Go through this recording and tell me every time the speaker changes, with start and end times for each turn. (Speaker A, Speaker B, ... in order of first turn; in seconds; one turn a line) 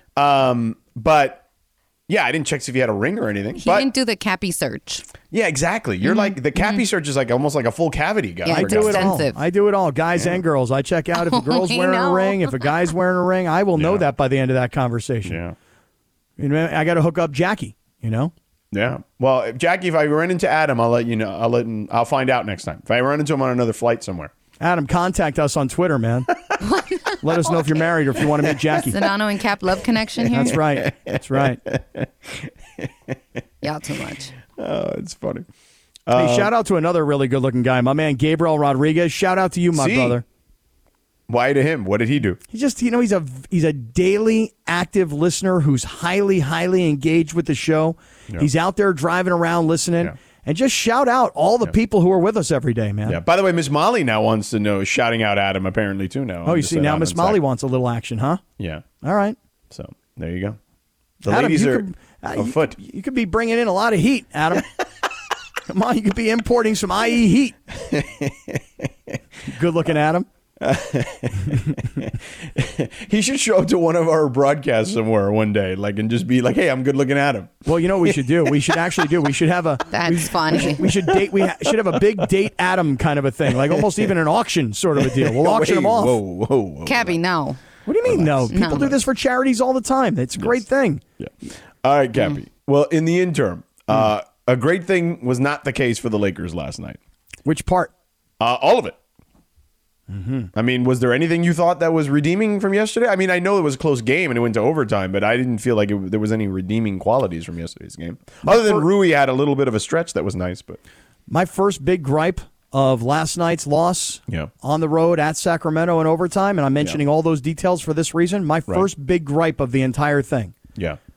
Speaker A: 0.2-1.4
Speaker A: 2.1-3.9
Speaker B: 3.6-5.1
Speaker A: 5.3-9.2
Speaker B: 6.0-6.8
Speaker B: 8.4-9.4
Speaker C: 8.6-15.4
Speaker B: 11.1-12.9
Speaker A: 13.8-14.1
Speaker A: 15.3-15.6
Speaker C: 16.4-18.3
Speaker A: 18.7-24.3
Speaker C: 24.6-26.3
Speaker B: 26.6-27.7
Speaker C: 27.2-29.1
Speaker B: 28.9-30.6
Speaker C: 30.3-31.6
Speaker A: 30.9-31.1
Speaker A: 31.7-32.1
Speaker B: 33.6-34.3
Speaker A: 34.6-35.5
Speaker A: 36.1-36.5
Speaker C: 36.1-40.2
Speaker A: 39.8-40.2
Speaker A: 41.3-42.4
Speaker C: 42.5-53.2
Speaker A: 53.1-57.4
Speaker C: 56.5-58.4
Speaker A: 58.6-58.8
Speaker C: 59.0-59.4
Speaker A: 59.7-60.6
Speaker A: 61.2-62.8
Speaker C: 61.3-64.7
Speaker C: 65.7-67.6
Speaker A: 67.8-68.6
Speaker C: 69.5-70.3
Speaker A: 70.6-77.6
Speaker C: 77.7-86.2
Speaker B: 79.9-80.8
Speaker A: 80.6-80.9
Speaker A: 81.7-82.0
Speaker A: 85.0-87.2
Speaker B: 86.8-87.6
Speaker C: 87.9-91.0
Speaker A: 88.1-88.5
Speaker B: 88.5-89.0
Speaker A: 91.2-97.0
Speaker C: 97.5-97.9
Speaker A: 98.4-99.0
Speaker C: 100.1-100.5
Speaker A: 100.5-110.8
Speaker C: 108.4-108.9
Speaker C: 111.3-120.5